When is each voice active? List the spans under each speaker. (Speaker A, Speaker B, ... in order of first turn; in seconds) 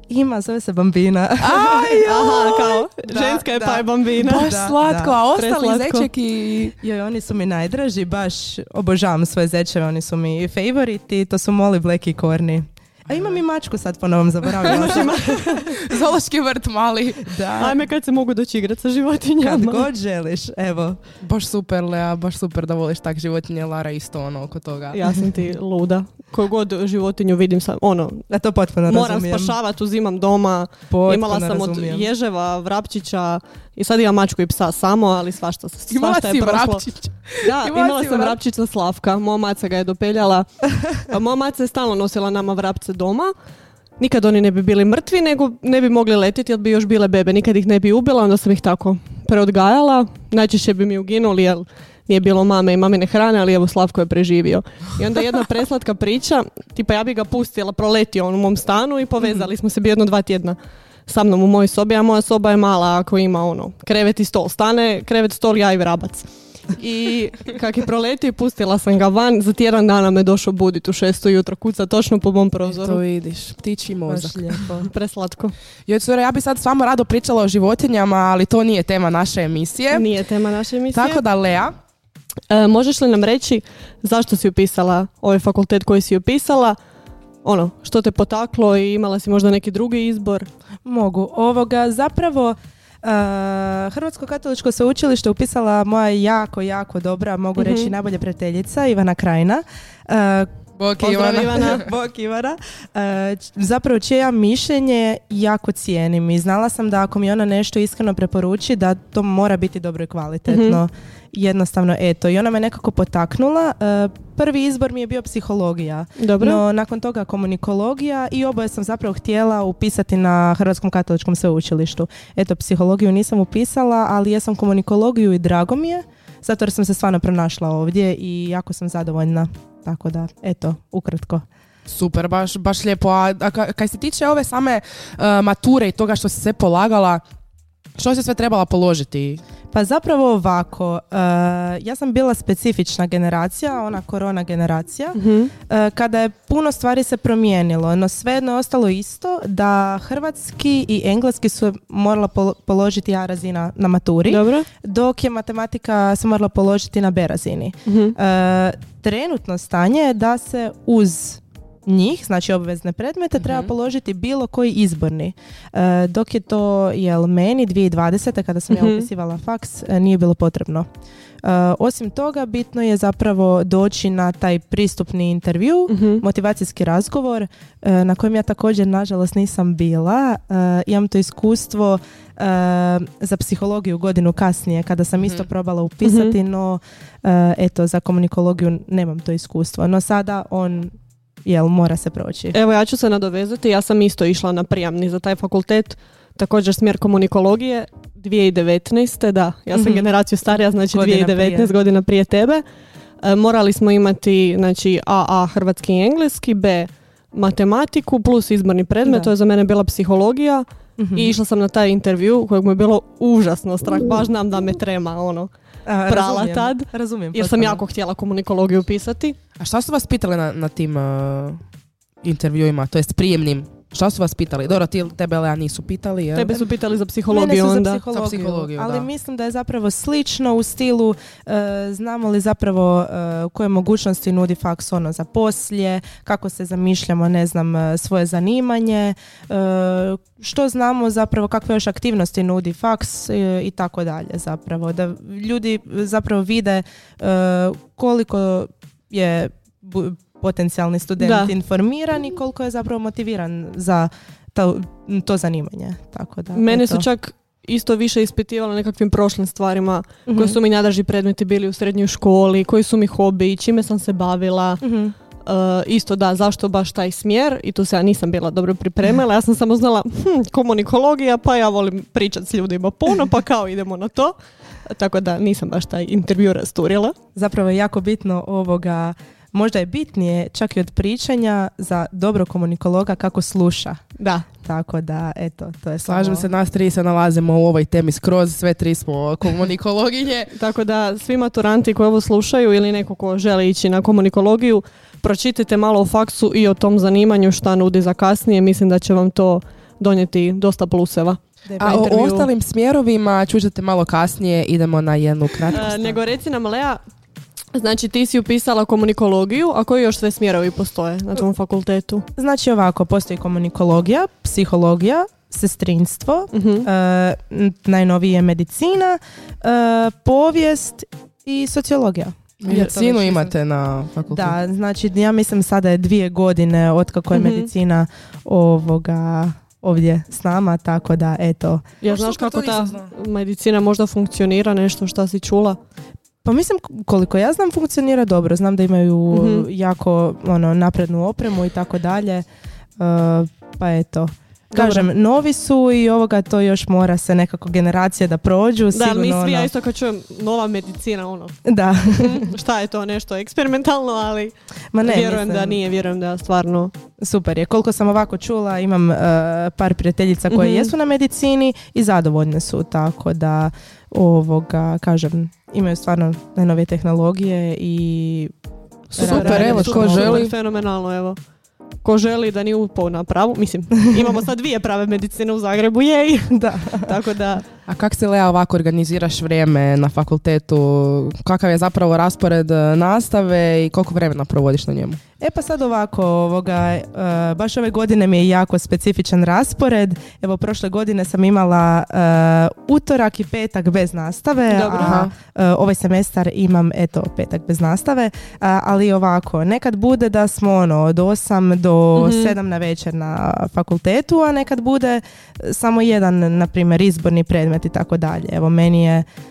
Speaker A: 0.1-5.2, 6.8-15.7, 17.2-17.8, 19.4-21.0, 28.3-29.6, 30.9-32.1, 74.1-74.9, 90.8-100.5, 101.3-131.4, 139.7-170.9, 171.4-190.9, 191.4-192.6, 199.7-200.0, 200.9-201.7, 209.0-209.3, 211.0-211.3, 215.8-217.8, 227.3-257.1, 260.3-260.6, 264.8-265.1, 277.3-284.0, 284.6-286.5, 301.7-302.4, 312.4-323.5, 324.3-331.9, 336.4-342.4, 343.0-349.7, 351.6-352.5, 354.9-355.8, 357.2-368.5, 369.1-370.4, 376.5-377.1, 385.4-409.2
Speaker B: 1.4-2.5, 4.2-6.8, 13.1-13.4, 14.4-17.3, 21.2-25.0, 35.9-38.4, 72.7-74.6, 75.9-80.1, 80.9-81.7, 100.8-101.8, 131.8-137.2, 137.9-139.4, 163.4-163.7, 185.2-185.5, 219.6-221.6, 222.2-226.5, 228.1-229.1, 286.0-290.5, 301.8-306.2, 322.6-324.6, 332.1-333.1, 369.1-370.5, 377.9-385.2, 395.0-395.3
Speaker C: 2.0-4.5, 5.3-6.1, 14.6-15.7, 17.6-19.9, 24.9-28.2, 28.9-36.8, 37.4-43.3, 44.0-73.0, 74.8-75.5, 79.9-81.2, 82.5-86.8, 87.4-90.5, 97.6-97.9, 101.0-101.8, 110.5-110.8, 116.2-116.6, 145.1-145.5, 154.2-154.7, 157.8-158.1, 168.7-169.1, 175.9-176.2, 186.0-186.3, 192.5-202.6, 203.2-215.5, 216.1-219.4, 226.3-228.0, 251.2-251.5, 256.5-264.8, 265.4-277.1, 284.2-284.4, 290.5-302.5, 305.7-307.0, 307.7-312.2, 316.5-316.9, 327.3-327.7, 332.0-335.8, 339.3-339.7, 344.7-345.1, 348.9-351.6, 352.1-356.9, 360.5-360.9, 369.2-371.4, 372.0-377.6, 394.7-395.2, 402.1-402.5